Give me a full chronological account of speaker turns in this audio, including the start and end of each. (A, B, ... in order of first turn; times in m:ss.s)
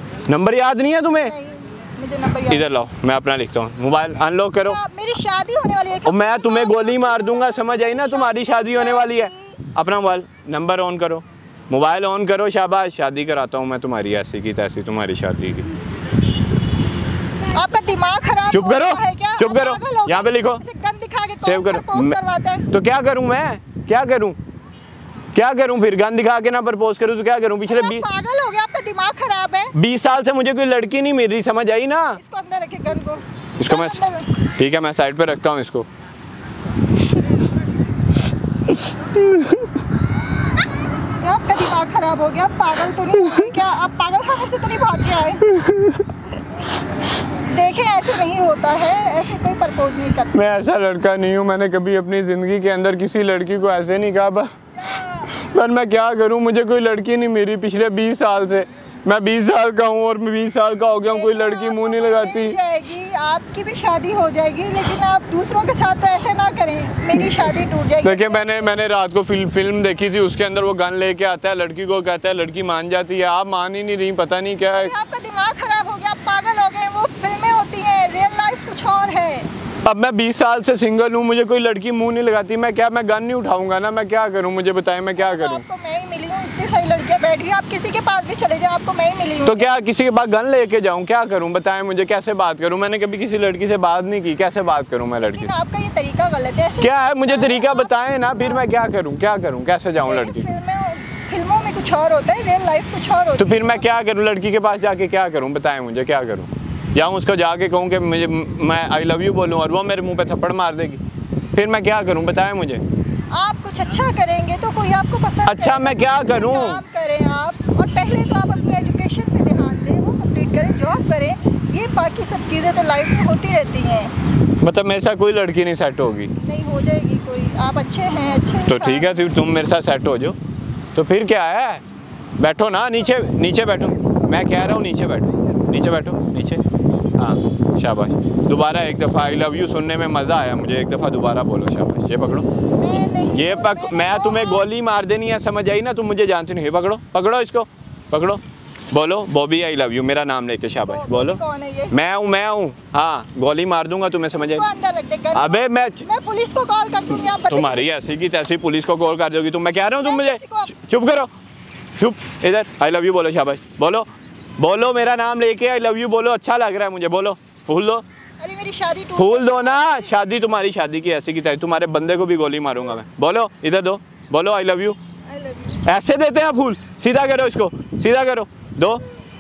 0:00.3-0:01.3 A
0:01.2-0:02.7 B
0:02.5-0:04.8 A
0:04.6-0:09.6 B
0:06.1-0:15.8 A
0:17.5-0:22.7 B
0:18.5-0:20.6 A
0:21.4-0:22.2 A
0:22.7-0:24.4 A
0:25.3-0:28.0 A
0:27.7-0:29.7 B
0:29.7-0:32.2 A
0:32.2-0:34.3 B
0:33.6-0:34.0 A
0:34.6-0:35.9 A
0:41.2-0:45.4 B
0:45.5-0:46.0 A
0:47.4-0:50.4 B
0:50.3-0:54.5 A
0:54.8-0:55.3 B
0:55.2-1:02.6 A
1:01.0-1:08.7 B
1:08.0-1:14.9 A
1:14.7-1:19.5 B
1:19.8-1:25.6 A
1:25.2-1:29.7 B
1:29.4-1:35.5 A
1:35.2-1:38.6 B
1:36.8-1:40.5 A
1:40.0-1:43.8 B
1:43.4-1:51.0 A
1:51.5-1:52.8 A
1:53.3-2:04.1 B
1:55.5-1:56.8 A
2:04.6-2:06.3 A
2:06.4-2:09.2 B
2:08.7-2:10.4 A
2:10.9-2:11.8 A
2:12.4-2:16.6 A
2:13.2-2:14.4 B
2:17.2-2:22.5 A
2:22.8-2:24.6 B
2:23.3-2:31.4 A
2:30.9-2:32.0 B
2:31.9-2:34.6 A
2:34.3-2:37.9 B
2:35.3-2:36.0 A
2:37.4-2:41.3 A
2:40.0-2:40.7 B
2:42.0-2:48.0 A
2:48.4-2:50.1 B
2:49.2-2:55.0 A
2:55.3-2:55.8 B
2:55.8-2:59.0 A